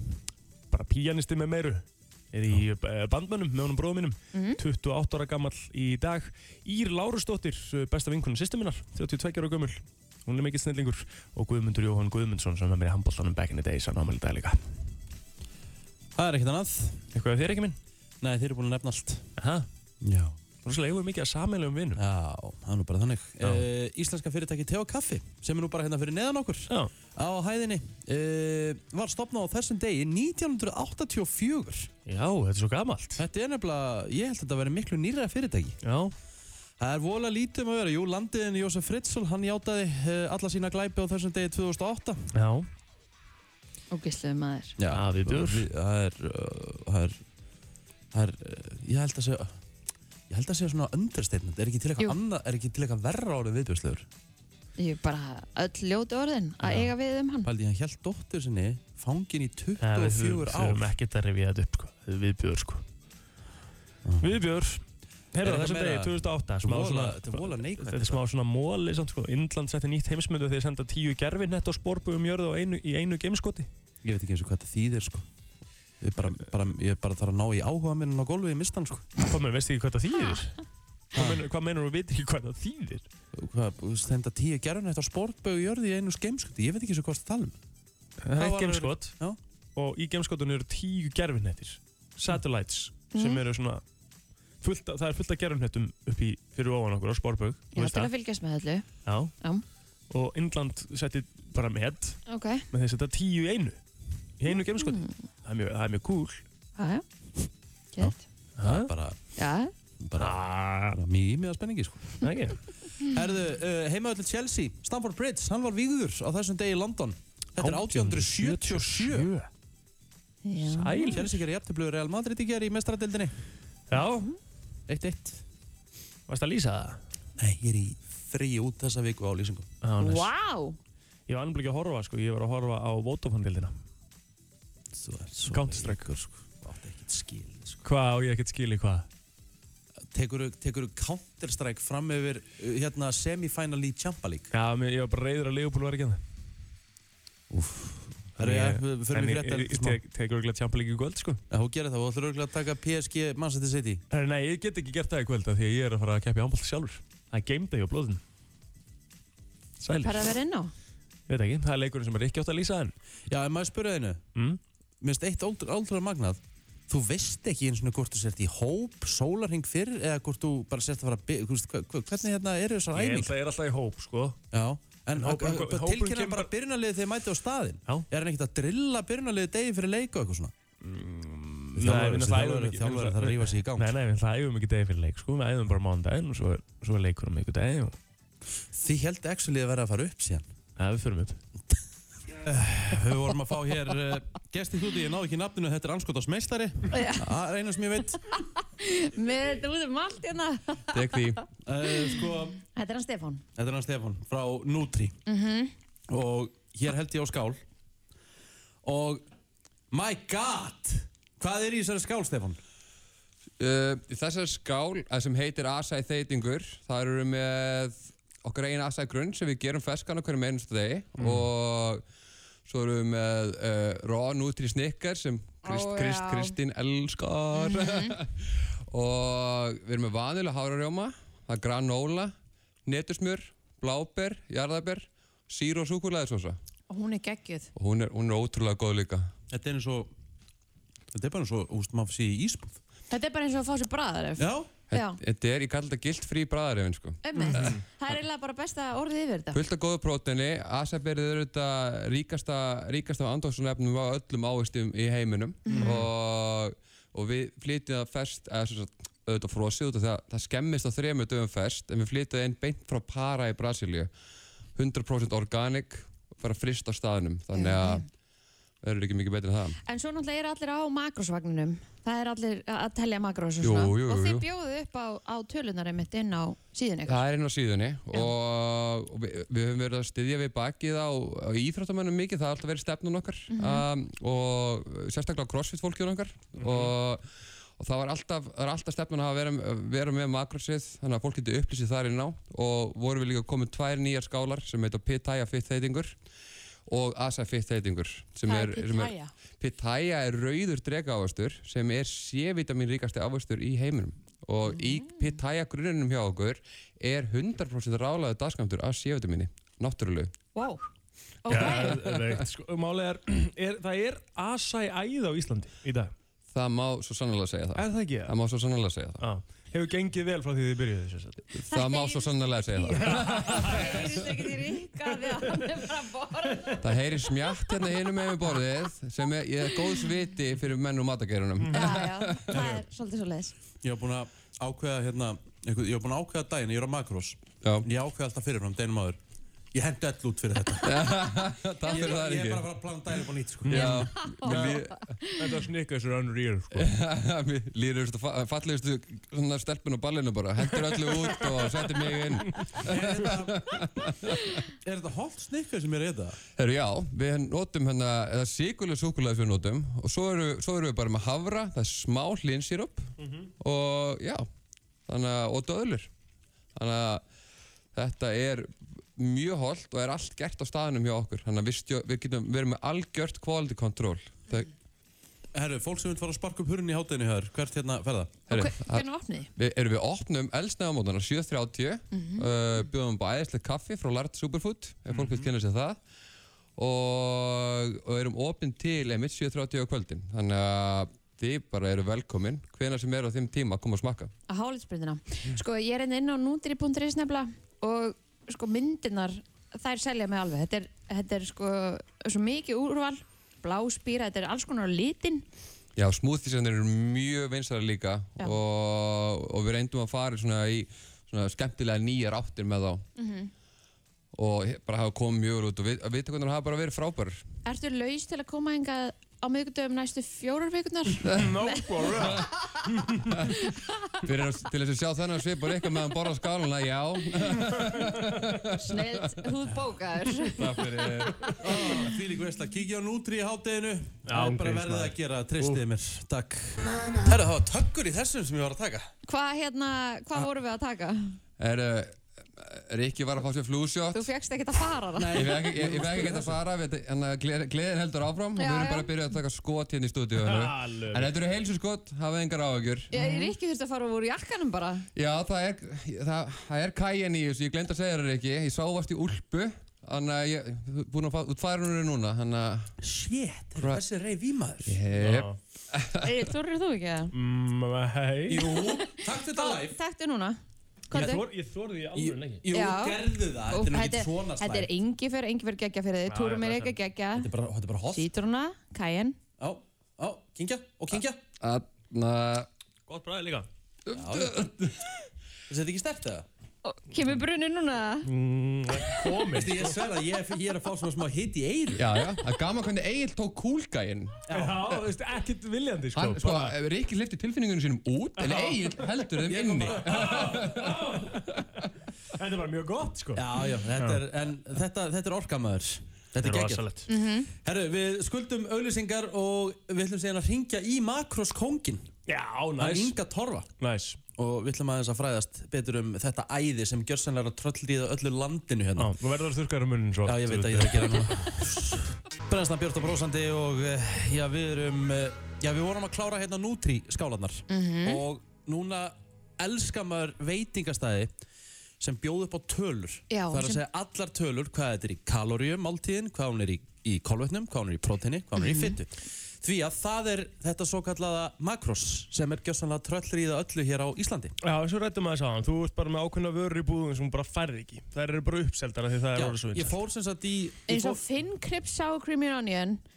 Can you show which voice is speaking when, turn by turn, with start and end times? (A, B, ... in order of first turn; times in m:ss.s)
0:00.7-0:14.6 A
0:04.3-0:04.6 B
0:16.2-0:17.0 C
0:17.1-0:17.8 A
0:18.2-0:19.3 C
0:19.4-0:19.6 A
0:20.0-0:20.4 C
0:20.6-0:22.0 A
0:22.0-0:31.9 C
0:32.0-0:33.2 A
0:33.2-0:35.8 C
0:35.8-0:36.1 A
0:36.8-0:42.3 C
0:42.3-0:42.7 A
0:43.9-0:44.7 B
0:44.8-0:47.2 C
0:44.9-0:45.6 A
0:48.1-0:49.6 C
0:50.3-0:54.1 C
0:54.8-0:57.5 B
0:56.6-0:56.9 A
0:57.4-1:00.9 C
0:59.8-1:02.8 A
1:04.2-1:13.7 A
1:05.4-1:08.2 C
1:14.0-1:15.2 C
1:16.0-1:19.2 C
1:19.2-1:20.6 A
1:21.1-1:23.0 A
1:21.1-1:21.4 C
1:23.3-1:27.6 C
1:28.2-1:29.1 A
1:28.4-1:29.4 C
1:29.8-1:33.8 A
1:33.1-1:33.4 B
1:34.6-1:38.1 A
1:37.7-1:38.8 B
1:39.0-1:39.3 A
1:40.1-1:43.8 A
1:42.3-1:42.6 B
1:44.4-1:46.4 A
1:44.5-1:45.1 B
1:46.8-1:47.0 B
1:47.9-1:48.2 B
1:48.0-1:49.2 C
1:48.6-1:48.9 A
1:49.4-1:49.7 B
1:50.0-1:52.2 C
1:50.2-1:51.0 A
1:52.2-1:52.6 A
1:53.0-1:59.3 C
1:57.6-1:59.5 A
2:00.4-2:01.2 B
2:00.6-2:01.4 A
2:01.0-2:03.3 C
2:03.9-2:04.3 A
2:03.9-2:04.3 B
2:04.9-2:05.4 C
2:06.3-2:07.0 A
2:07.4-2:09.7 C
2:09.8-2:10.3 A
2:10.0-2:10.8 B
2:11.3-2:13.7 A
2:14.9-2:17.8 C
2:15.5-2:16.1 A
2:17.8-2:19.0 A
2:20.1-2:24.5 C
2:24.5-2:26.2 A
2:27.5-2:30.0 C
2:28.4-2:31.4 A
2:31.5-2:34.0 C
2:34.1-2:38.2 A
2:39.8-2:40.3 A
2:40.0-2:40.7 B
2:41.3-2:42.9 A
2:43.3-2:44.2 C
2:44.3-2:44.6 A
2:45.0-2:53.3 C
2:52.9-2:54.4 A
2:54.5-3:00.5 C
2:55.2-2:56.5 A
3:00.8-3:08.0 A
3:01.7-3:03.9 C
3:08.7-3:10.5 C
3:10.8-3:11.4 A
3:12.3-3:18.2 C
3:16.9-3:17.3 B
3:18.2-3:23.4 B
3:20.9-3:21.4 D
3:21.6-3:22.6 C
3:23.6-3:25.2 C
3:25.2-3:25.7 B
3:26.1-3:27.6 C
3:28.8-3:29.2 C
3:29.9-3:32.6 C
3:33.6-3:42.0 D
3:41.2-3:41.5 A
3:42.7-3:52.3 D
3:45.6-3:46.6 B
3:47.6-3:48.1 B
3:52.8-3:56.6 D
3:56.9-3:57.7 B
3:57.7-3:59.3 D
3:59.5-4:00.1 C
4:01.1-4:02.8 C
4:03.1-4:05.2 B
4:04.4-4:04.7 C
4:04.9-4:07.8 D
4:07.2-4:09.6 B
4:07.4-4:07.8 A
4:09.5-4:24.1 D
4:15.6-4:16.0 B
4:24.7-4:28.0 D
4:27.5-4:28.0 B
4:28.8-4:29.8 D
4:29.8-4:37.2 B
4:33.6-4:34.4 D
4:37.1-4:47.2 D
4:43.5-4:43.8 B
4:46.6-4:46.9 A
4:47.8-4:56.2 D
4:56.9-5:10.3 D
4:58.4-4:59.3 B
5:04.7-5:05.4 B
5:10.5-5:10.9 B
5:11.4-5:12.0 B
5:11.5-5:16.1 A
5:11.6-5:12.1 D
5:16.5-5:19.2 D
5:17.8-5:18.3 A
5:19.2-5:21.4 A
5:21.5-5:24.1 D
5:21.7-5:27.7 B
5:23.0-5:23.9 A
5:26.8-5:32.8 D
5:31.7-5:33.5 B
5:33.8-5:39.2 C
5:39.7-5:41.2 C
5:40.8-5:42.6 D
5:41.8-5:42.2 B
5:41.9-5:44.1 C
5:43.6-5:44.8 A
5:43.7-5:45.0 D
5:44.0-5:45.6 B
5:45.4-5:46.9 A
5:46.7-5:54.6 D
5:52.8-5:53.8 C
5:54.8-5:56.4 C
5:56.6-6:04.4 D
6:05.1-6:06.1 D
6:06.8-6:07.2 D
6:07.9-6:14.7 D
6:15.5-6:18.4 C
6:18.5-6:19.5 B
6:18.5-6:26.0 D
6:22.1-6:22.5 B
6:26.8-6:34.3 D
6:34.5-6:45.4 B
6:46.0-6:53.0 D
6:53.2-6:53.5 B
6:54.3-6:57.4 D
6:57.6-7:02.9 B
7:01.3-7:02.5 D
7:01.3-7:02.5 A
7:03.2-7:03.5 D
7:03.5-7:03.9 B
7:04.2-7:09.3 D
7:08.8-7:10.6 B
7:10.6-7:11.7 D
7:11.6-7:19.1 C
7:14.3-7:15.8 A
7:19.3-7:21.4 B
7:21.6-7:24.3 D
7:24.1-7:25.4 B
7:25.2-7:26.6 C
7:25.3-7:33.1 D
7:28.6-7:29.1 B
7:30.4-7:31.3 A
7:33.1-7:35.0 B
7:35.1-7:42.9 D
7:43.0-7:45.0 C
7:43.8-7:44.0 D
7:44.8-7:46.3 D
7:45.2-7:45.6 A
7:46.2-7:47.3 B
7:47.3-7:48.7 A
7:48.5-7:50.0 C
7:48.9-7:50.6 B
7:51.1-7:51.4 B
7:51.1-7:52.6 A
7:52.1-7:54.9 C
7:52.7-7:57.5 B
7:56.3-7:57.0 A
7:57.3-7:58.3 C
7:58.1-7:59.4 B
7:59.6-8:01.4 C
8:01.6-8:02.7 D
8:03.1-8:03.7 A
8:04.1-8:04.8 D
8:04.1-8:04.9 C
8:05.7-8:06.5 C
8:06.8-8:08.3 B
8:08.2-8:10.0 A
8:09.5-8:12.1 C
8:11.9-8:14.4 D
8:14.5-8:15.0 C
8:14.5-8:16.7 A
8:16.1-8:21.6 D
8:18.4-8:18.8 A
8:19.4-8:20.9 C
8:20.1-8:21.2 A
8:22.4-8:24.2 A
8:23.3-8:26.8 C
8:26.4-8:27.1 A
8:27.1-8:27.5 B
8:27.6-8:32.1 C
8:32.3-8:33.1 A
8:32.8-8:33.7 C
8:33.8-8:34.2 A
8:34.4-8:39.1 C
8:39.0-8:41.3 A
8:40.2-8:51.3 C
8:47.7-8:48.2 B
8:52.0-9:04.6 C
8:53.3-8:53.8 B
8:58.6-8:59.0 B
9:04.6-9:10.0 A
9:09.3-9:11.2 C
9:10.9-9:13.0 B